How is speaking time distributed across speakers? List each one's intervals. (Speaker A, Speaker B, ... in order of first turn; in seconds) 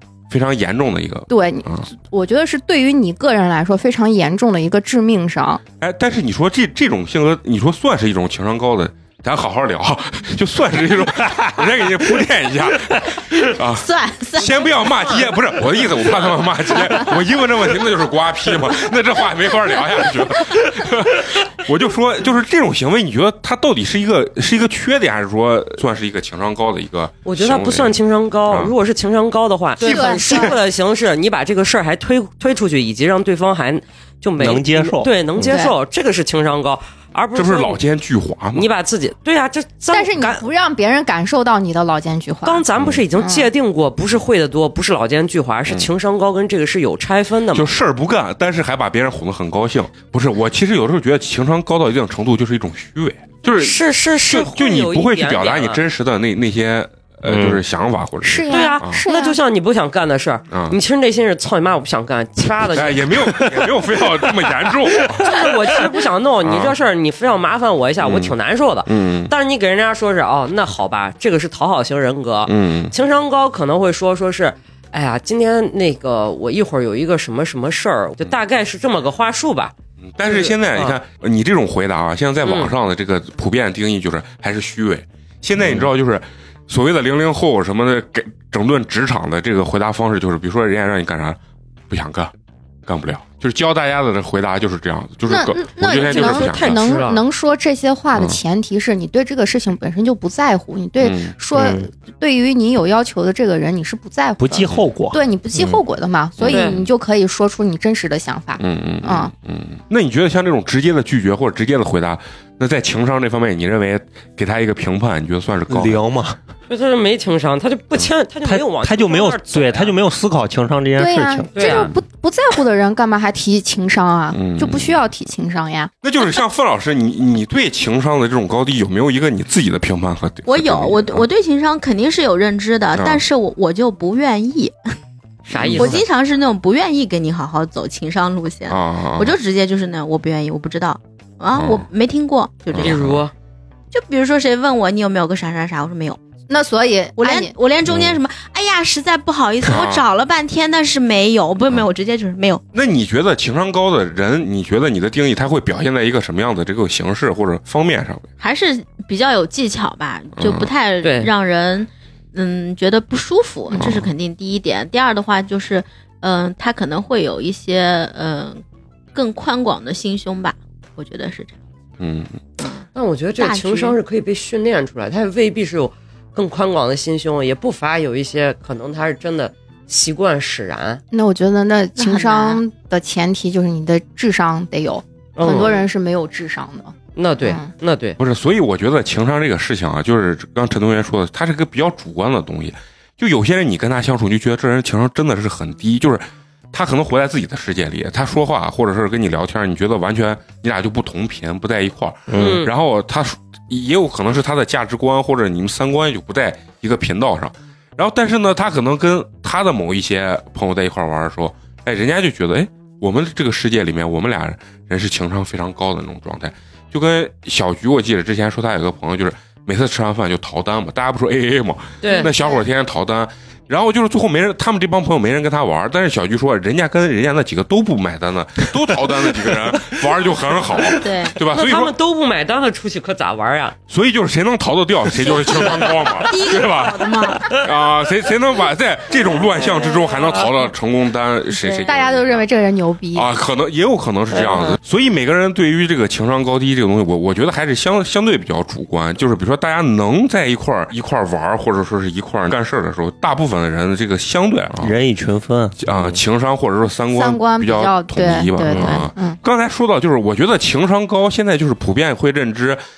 Speaker A: 0.3-1.9, 5.8-27.9, 28.5-28.7, 37.3-38.6, 42.8-43.0, 47.5-59.0, 60.5-60.8, 62.6-65.4, 66.4-66.8, 68.0-68.3, 68.9-69.3, 72.5-72.9, 80.0-91.4, 91.9-92.3, 92.8-96.8, 101.0-101.3, 106.4-106.9, 108.6-116.0, 124.3-125.0, 126.0-131.3, 132.9-133.2, 135.6-136.0, 138.7-139.4, 141.5-141.8, 142.7-143.2, 147.8-148.2, 149.6-150.1, 152.7-158.3, 160.4-160.7, 163.8-164.1, 172.0-172.4, 188.2-231.9, 233.9-242.4, 243.1-254.9, 255.8-262.8
Speaker B: 1.3-5.6, 29.8-30.6, 35.5-35.7, 39.9-42.6, 43.1-43.5, 58.2-59.4, 95.3-109.3, 121.0-125.9, 146.5-147.5, 181.1-187.7, 241.8-243.3, 257.1-259.4
Speaker C: 13.3-15.3, 16.7-17.0, 29.8-30.5, 130.5-134.7, 135.7-143.1, 143.9-146.2, 147.2-152.6, 158.4-168.6, 169.1-171.5, 173.4-174.0, 181.9-182.6, 222.0-222.5, 230.9-231.4, 235.2-237.6, 239.5-240.5, 241.5-241.8
Speaker D: 27.2-37.8, 38.5-40.4, 42.4-47.7, 53.5-55.8, 58.5-63.4, 65.2-79.7, 80.2-81.0, 82.4-82.7, 96.0-97.2, 106.5-106.8, 116.7-119.9, 121.5-121.9, 135.5-136.1, 142.8-143.3, 161.0-161.3, 172.9-181.0, 185.4-185.8, 187.2-188.2, 202.3-202.7, 222.0-222.3, 231.5-233.8, 244.4-244.7
Speaker E: 34.4-35.1, 57.2-57.6, 63.3-63.7, 101.5-101.9, 104.4-105.8, 115.7-116.4, 118.4-121.9, 202.3-202.6, 254.8-256.2, 258.6-259.0